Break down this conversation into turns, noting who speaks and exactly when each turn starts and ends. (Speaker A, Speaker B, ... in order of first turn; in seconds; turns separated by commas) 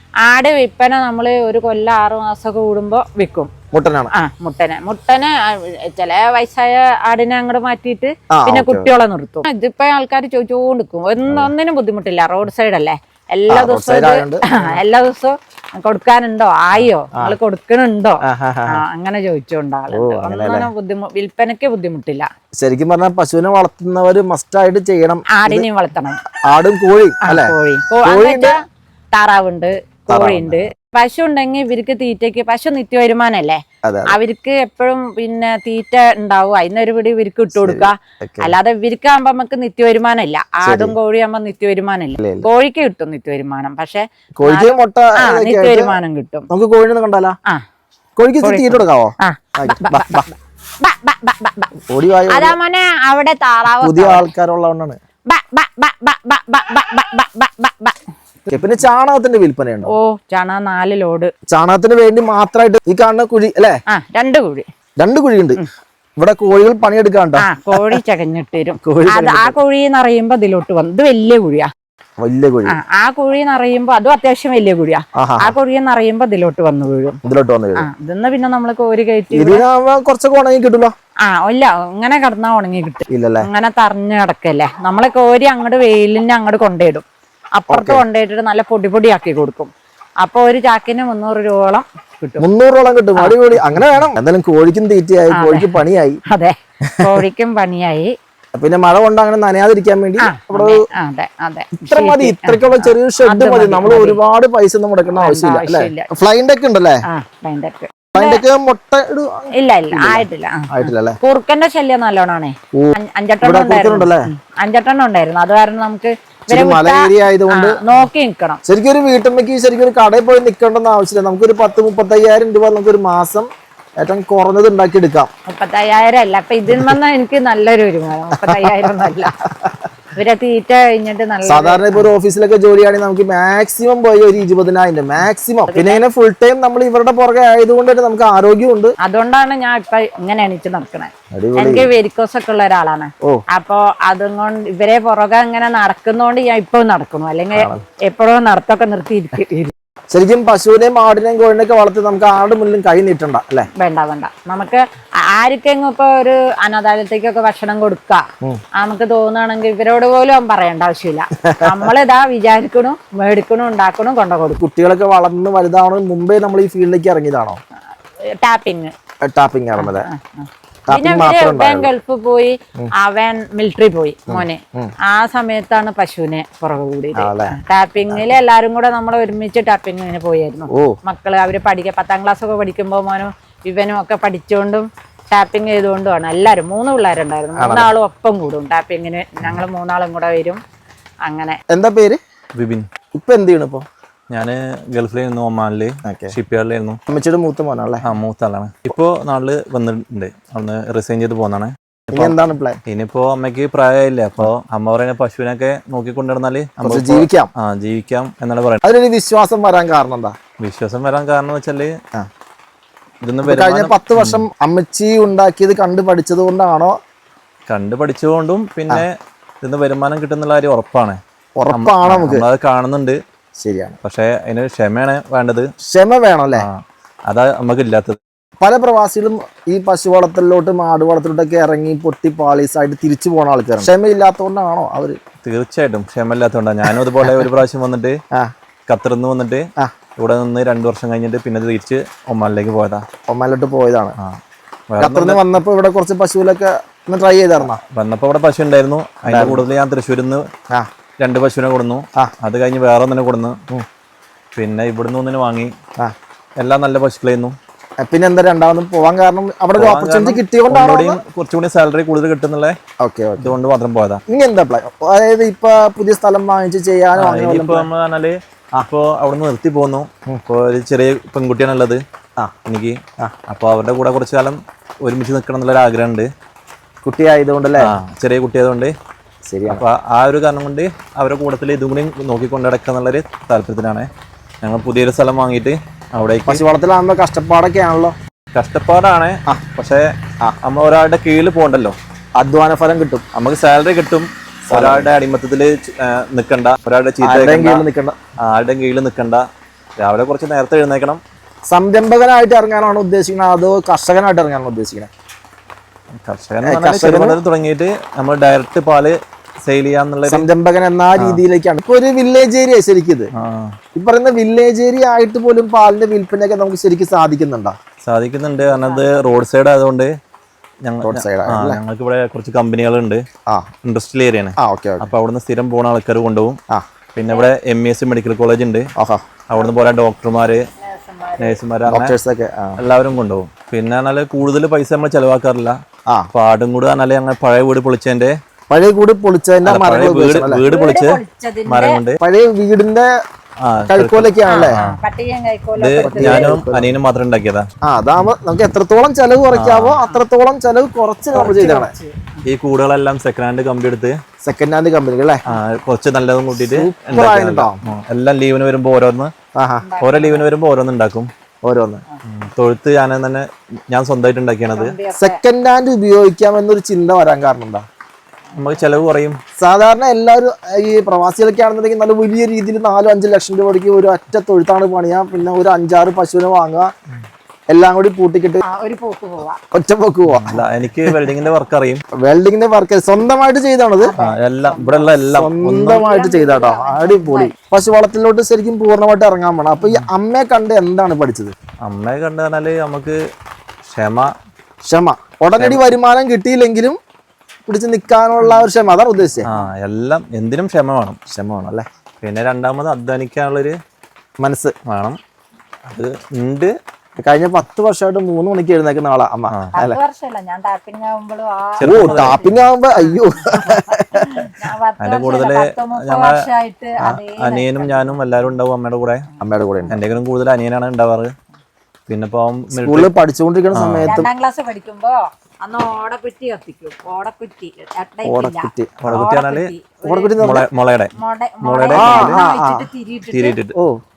Speaker A: 0.2-3.5, Speaker B: 3.7-4.1, Speaker A: 4.1-22.3, Speaker B: 8.3-8.9, Speaker B: 11.2-11.5, Speaker B: 13.5-14.8, Speaker B: 18.2-18.8, Speaker B: 19.9-20.7, Speaker B: 22.6-25.6, Speaker A: 25.3-26.2, Speaker B: 26.5-28.6, Speaker A: 27.2-28.6, Speaker A: 29.1-46.5, Speaker B: 30.1-30.7, Speaker B: 33.8-34.2, Speaker B: 37.5-38.5, Speaker B: 40.6-41.0, Speaker B: 42.2-42.5, Speaker B: 44.4-46.0, Speaker B: 46.5-47.4, Speaker B: 48.2-50.2, Speaker A: 48.4-51.7, Speaker B: 51.9-52.6, Speaker A: 52.3-54.3, Speaker B: 53.8-55.0, Speaker A: 55.3-58.6, Speaker B: 58.5-59.9, Speaker A: 59.9-61.3, Speaker B: 61.5-63.8, Speaker A: 63.9-64.7, Speaker B: 65.0-65.6, Speaker B: 66.2-68.0, Speaker A: 67.4-71.7, Speaker B: 68.8-69.6, Speaker B: 72.2-72.8, Speaker A: 72.7-77.2, Speaker B: 75.2-75.5, Speaker B: 77.2-77.9, Speaker A: 77.8-79.6, Speaker B: 79.3-80.9, Speaker A: 81.2-89.7, Speaker B: 83.1-83.5, Speaker B: 87.7-88.0, Speaker A: 90.2-92.5, Speaker B: 92.4-96.2, Speaker A: 93.2-94.0, Speaker A: 95.3-95.7, Speaker A: 96.3-98.1, Speaker B: 96.9-97.2, Speaker B: 98.5-100.8, Speaker A: 100.2-104.2, Speaker B: 101.8-107.0, Speaker A: 105.1-106.1, Speaker A: 107.1-108.4, Speaker B: 108.1-111.2, Speaker A: 109.5-118.6, Speaker B: 112.7-114.3, Speaker B: 116.5-117.8, Speaker B: 118.6-123.5, Speaker B: 124.0-125.3, Speaker A: 125.5-129.4, Speaker B: 128.3-129.8, Speaker A: 130.1-132.1, Speaker B: 131.4-138.9, Speaker A: 135.7-136.0, Speaker A: 139.0-149.7, Speaker B: 141.3-141.9, Speaker B: 147.5-147.8, Speaker B: 150.1-153.7, Speaker A: 153.8-158.2, Speaker A: 158.8-164.6, Speaker B: 161.4-161.9, Speaker B: 164.6-167.6, Speaker A: 168.4-168.9, Speaker B: 169.2-170.1, Speaker A: 169.8-190.6, Speaker B: 170.9-171.9, Speaker B: 174.3-174.9, Speaker B: 177.2-177.6, Speaker B: 180.7-180.9, Speaker B: 187.6-187.9, Speaker A: 191.2-191.6, Speaker B: 191.7-192.2, Speaker C: 192.6-192.9, Speaker B: 193.1-193.8, Speaker C: 194.3-197.0, Speaker B: 196.1-196.3, Speaker B: 197.1-198.1, Speaker C: 198.0-202.4, Speaker B: 202.1-202.8, Speaker C: 202.9-208.8, Speaker B: 206.8-207.5, Speaker B: 208.8-210.4, Speaker C: 210.6-211.9, Speaker C: 213.2-214.4, Speaker B: 213.4-216.9, Speaker C: 217.7-221.2, Speaker B: 221.6-222.4, Speaker C: 221.7-223.2, Speaker B: 223.6-224.0, Speaker C: 224.0-225.7, Speaker B: 225.8-226.7, Speaker C: 226.6-228.2, Speaker B: 228.6-235.2, Speaker C: 235.4-238.2, Speaker B: 237.2-237.5, Speaker C: 238.9-239.7, Speaker C: 240.2-243.1, Speaker B: 243.3-244.1, Speaker C: 244.9-245.6, Speaker B: 245.0-247.8, Speaker C: 247.6-250.4, Speaker B: 249.3-249.6, Speaker C: 251.2-253.6, Speaker C: 254.6-255.7, Speaker C: 256.6-257.6, Speaker B: 258.0-261.2, Speaker C: 259.8-262.8, Speaker B: 263.0-263.6, Speaker C: 263.4-264.2, Speaker B: 264.3-267.9, Speaker C: 267.1-272.0, Speaker C: 272.6-276.3, Speaker B: 277.0-277.9, Speaker C: 277.8-278.9, Speaker B: 279.5-279.8, Speaker C: 279.6-284.1, Speaker C: 284.6-286.6, Speaker B: 286.4-288.1, Speaker C: 288.6-291.9, Speaker B: 292.4-293.2, Speaker C: 293.3-297.9, Speaker B: 294.7-295.1, Speaker B: 297.2-298.2, Speaker C: 298.4-299.4, Speaker C: 300.0-301.2, Speaker B: 301.7-305.1, Speaker C: 306.2-310.5, Speaker B: 306.6-307.4, Speaker B: 310.3-313.3, Speaker C: 313.4-313.7, Speaker B: 313.9-317.8, Speaker C: 318.1-320.1, Speaker A: 318.6-319.2, Speaker C: 320.8-323.2, Speaker B: 321.0-321.8, Speaker C: 323.8-326.6, Speaker B: 324.6-325.1, Speaker C: 327.1-328.9, Speaker A: 327.3-327.6, Speaker B: 329.0-329.3, Speaker C: 329.5-330.6, Speaker A: 330.8-331.6, Speaker C: 331.4-332.1, Speaker B: 331.9-332.8, Speaker C: 332.8-335.8, Speaker C: 336.3-338.4, Speaker B: 338.7-340.6, Speaker C: 339.6-342.2, Speaker A: 340.6-342.0, Speaker B: 342.2-343.1, Speaker C: 343.6-344.9, Speaker B: 343.9-344.8, Speaker A: 344.4-346.6, Speaker C: 345.8-347.7, Speaker B: 346.0-346.9, Speaker B: 347.8-351.9, Speaker C: 349.5-350.0, Speaker A: 351.3-352.4, Speaker C: 351.4-351.7, Speaker C: 352.5-354.2, Speaker B: 354.4-355.4, Speaker C: 355.5-359.3, Speaker B: 356.5-357.8, Speaker B: 359.6-359.9, Speaker A: 359.8-360.5, Speaker C: 360.0-361.3, Speaker B: 361.6-362.0, Speaker C: 362.2-364.9, Speaker A: 364.7-365.4, Speaker B: 365.1-367.9, Speaker C: 368.6-369.4, Speaker B: 369.6-376.9, Speaker B: 377.7-378.6, Speaker A: 378.6-379.6, Speaker B: 379.7-381.3, Speaker C: 380.3-382.0, Speaker B: 382.1-384.1, Speaker A: 384.0-385.1, Speaker C: 384.2-386.1, Speaker B: 385.3-391.5, Speaker A: 385.9-387.6, Speaker C: 391.8-393.2, Speaker C: 393.9-394.3, Speaker B: 394.9-397.0, Speaker B: 397.7-399.5, Speaker C: 399.5-401.2, Speaker B: 401.3-401.9, Speaker C: 402.2-403.7, Speaker B: 404.4-404.7, Speaker C: 404.9-405.2, Speaker C: 405.9-406.7, Speaker B: 407.2-410.0, Speaker A: 409.7-418.5, Speaker C: 411.8-412.6, Speaker B: 411.8-414.5, Speaker C: 415.0-416.4, Speaker C: 417.3-419.3, Speaker B: 419.4-420.0, Speaker C: 419.9-421.3, Speaker C: 422.1-423.1, Speaker B: 422.7-424.3, Speaker C: 423.7-424.1, Speaker A: 424.0-430.4, Speaker B: 428.2-429.1, Speaker C: 429.0-429.7, Speaker B: 430.0-430.7, Speaker C: 430.4-432.4, Speaker A: 431.1-433.6, Speaker B: 431.9-432.9, Speaker C: 433.3-433.7